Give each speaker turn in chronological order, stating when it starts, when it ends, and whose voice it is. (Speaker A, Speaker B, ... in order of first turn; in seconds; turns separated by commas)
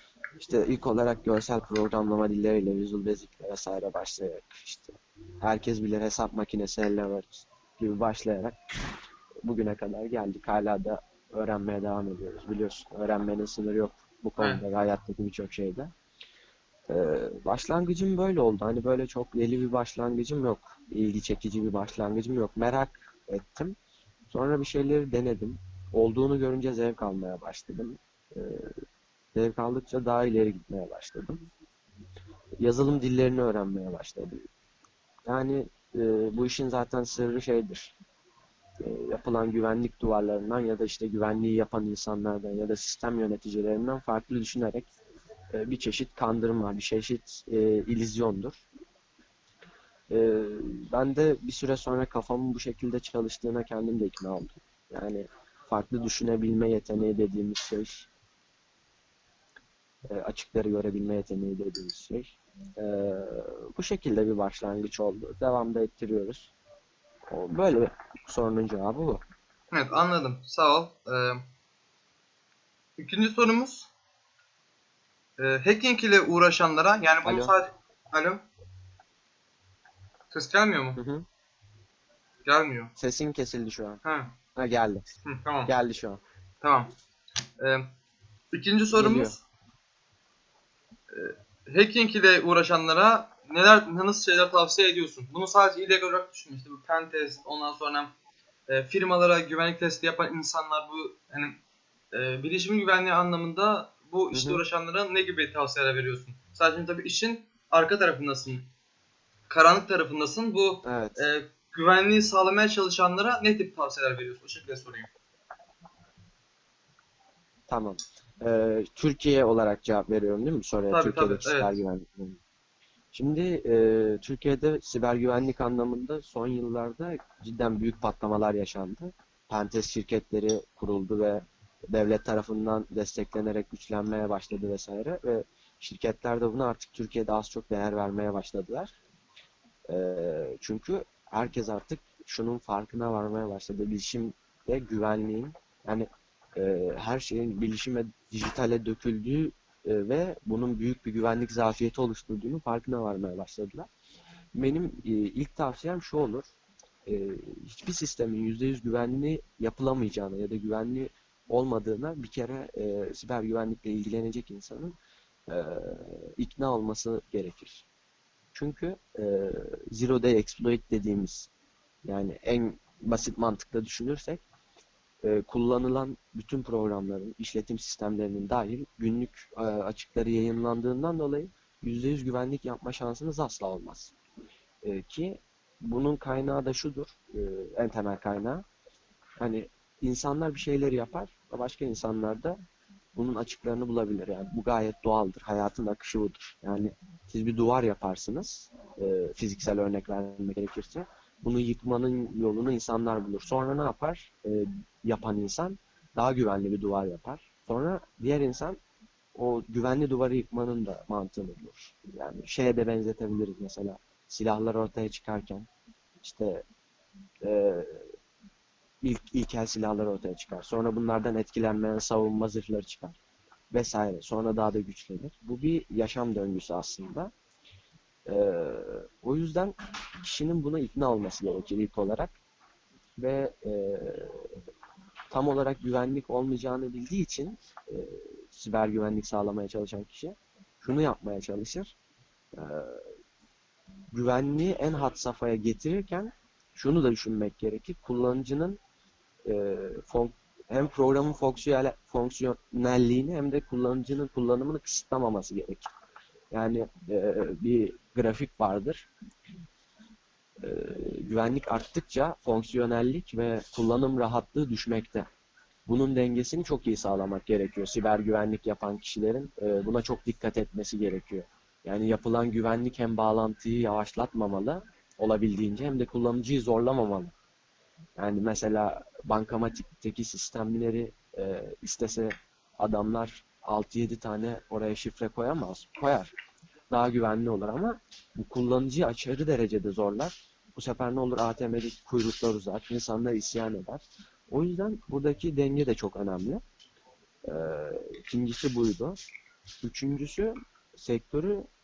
Speaker A: 0.4-8.6, Speaker A: 9.4-15.9, Speaker B: 14.4-14.6, Speaker A: 16.9-23.8, Speaker A: 24.3-28.7, Speaker A: 29.3-31.4, Speaker A: 32.6-34.4, Speaker A: 35.3-37.9, Speaker A: 38.8-44.9, Speaker A: 45.5-48.6, Speaker A: 50.1-58.1, Speaker A: 60.1-66.5, Speaker A: 67.3-69.2, Speaker B: 69.7-71.4, Speaker B: 73.0-73.9, Speaker B: 75.4-78.4, Speaker A: 77.2-77.5, Speaker B: 80.3-81.0, Speaker A: 81.0-81.2, Speaker B: 82.4-82.9, Speaker A: 83.0-84.0, Speaker B: 84.0-84.3, Speaker A: 84.5-85.0, Speaker B: 85.2-85.7, Speaker A: 85.7-86.2, Speaker B: 86.6-86.9, Speaker B: 87.6-87.9, Speaker B: 88.5-89.4, Speaker A: 88.9-89.4, Speaker B: 91.1-98.1, Speaker B: 98.7-101.6, Speaker B: 102.1-108.7, Speaker A: 104.3-104.6, Speaker B: 109.5-115.1, Speaker A: 110.8-111.2, Speaker A: 117.7-122.4, Speaker B: 120.9-121.8, Speaker A: 123.1-139.0, Speaker A: 139.9-153.9, Speaker A: 154.6-156.4, Speaker A: 157.1-164.9, Speaker A: 165.5-167.9, Speaker A: 168.5-171.5, Speaker A: 172.0-174.4, Speaker A: 175.2-184.1, Speaker A: 184.8-188.6, Speaker A: 189.4-192.6, Speaker A: 193.1-208.8, Speaker A: 209.3-215.7, Speaker A: 216.2-216.6, Speaker A: 217.4-218.1, Speaker A: 219.0-223.2, Speaker A: 223.7-227.3, Speaker A: 228.2-232.3, Speaker A: 233.2-234.6, Speaker A: 235.3-241.9, Speaker A: 242.6-243.1, Speaker A: 244.1-248.8, Speaker A: 249.4-255.9, Speaker A: 256.5-259.1, Speaker A: 260.6-265.3, Speaker A: 265.9-277.3, Speaker A: 278.2-286.3, Speaker A: 286.9-296.6, Speaker A: 297.4-299.2, Speaker A: 299.8-301.6